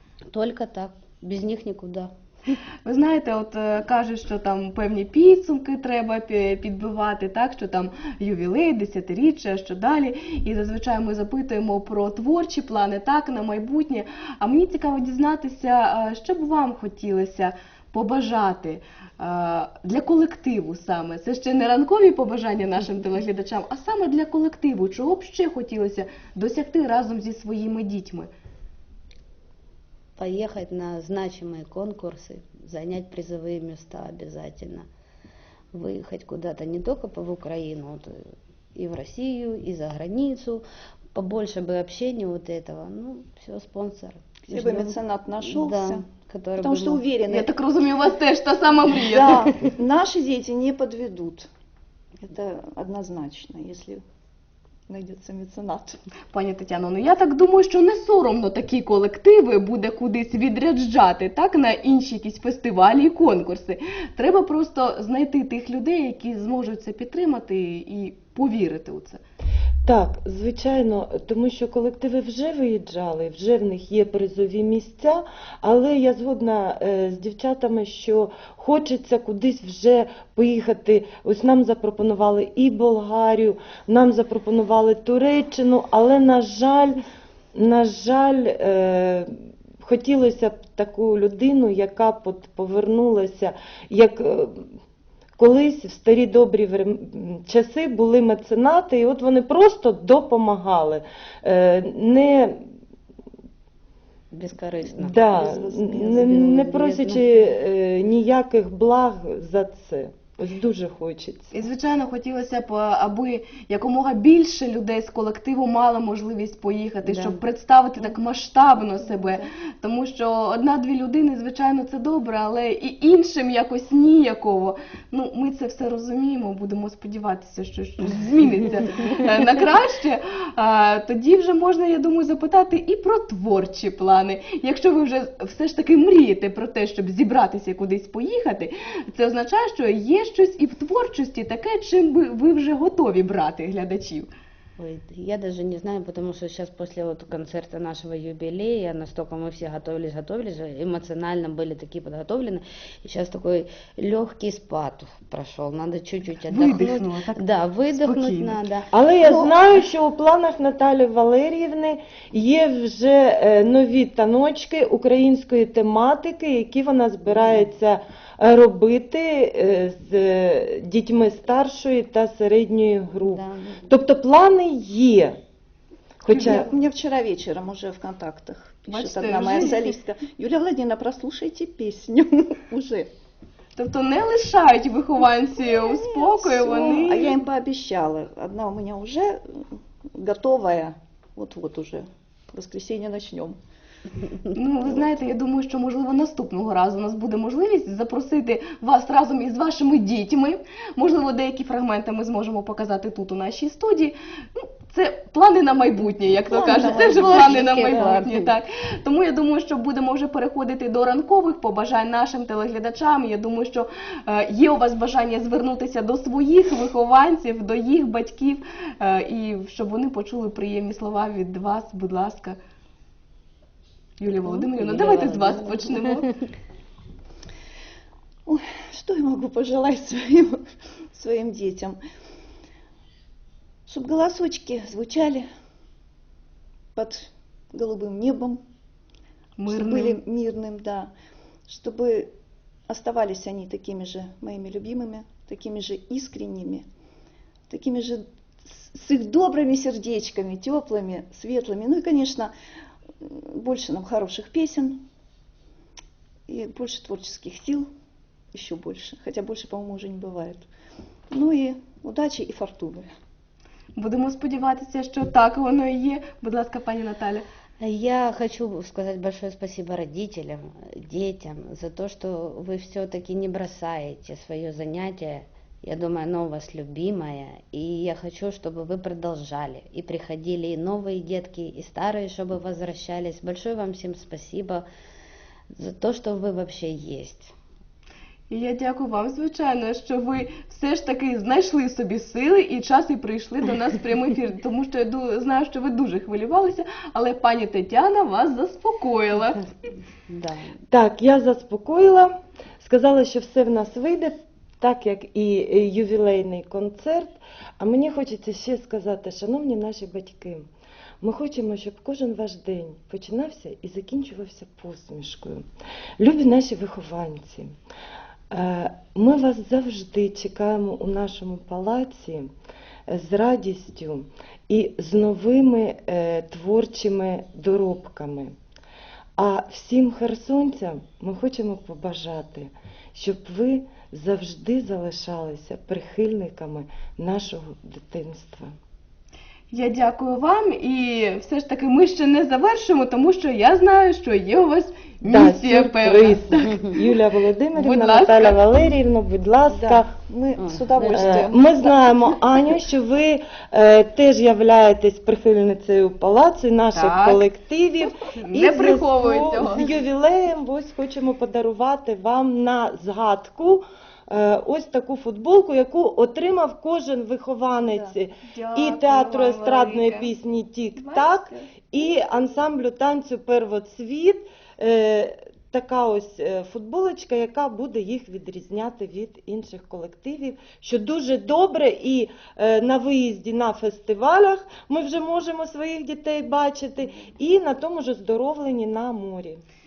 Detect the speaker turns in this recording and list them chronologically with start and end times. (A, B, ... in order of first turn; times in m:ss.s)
0:00.3-0:02.5 A
0:02.8-0:28.3 B
0:30.2-0:34.8 A
0:35.7-0:40.6 A
0:41.1-0:47.0 A
0:44.5-0:46.0 C
0:46.6-0:47.5 C
0:47.3-0:49.5 B
0:49.0-0:51.5 C
0:52.2-0:54.0 C
0:54.9-0:56.0 C
0:56.3-1:09.2 B
1:09.8-1:27.0 D
1:27.5-1:34.7 D
1:35.4-1:42.6 D
1:44.3-1:45.2 A
1:45.0-1:51.5 D
1:45.1-1:46.4 C
1:46.0-1:47.5 A
1:51.5-2:24.3 B
1:57.0-1:57.4 A
1:59.0-1:59.5 C
2:24.8-2:38.9 A
2:36.5-2:38.6 B
2:38.9-2:55.4 D
2:39.2-2:39.5 C
2:53.2-2:53.9 A
2:56.2-2:56.7 D
2:56.3-2:56.7 B
2:56.3-3:03.1 C
2:58.9-2:59.9 B
3:03.8-3:07.3 B
3:05.6-3:13.6 C
3:14.5-3:42.6 B
3:26.5-3:28.2 C
3:26.8-3:28.5 A
3:44.2-3:46.3 B
3:44.4-3:46.4 A
3:48.4-3:50.6 C
3:51.1-3:52.0 C
3:53.9-3:55.4 C
3:56.9-3:58.6 C
3:59.6-4:00.2 B
3:59.7-4:01.1 C
4:01.7-4:02.3 C
4:02.9-4:06.8 C
4:07.7-4:12.5 C
4:13.2-4:15.0 C
4:16.5-4:17.9 C
4:18.5-4:20.7 C
4:21.3-4:23.0 C
4:24.0-4:27.4 B
4:27.8-4:44.8 A
4:45.7-4:47.5 A
4:48.5-4:59.6 B
5:00.3-5:00.8 A
5:00.9-5:10.7 D
5:11.2-5:15.7 D
5:16.2-5:17.7 D
5:18.5-5:22.5 D
5:23.1-5:28.5 D
5:29.4-5:38.7 D
5:39.7-5:47.1 B
5:45.2-5:50.1 D
5:47.7-5:48.7 B
5:49.7-5:52.1 C
5:50.6-5:51.4 A
5:51.0-6:29.6 D
5:56.9-5:57.4 B
5:58.2-5:59.8 B
6:07.8-6:08.2 C
6:08.5-6:10.3 B
6:11.0-6:11.7 B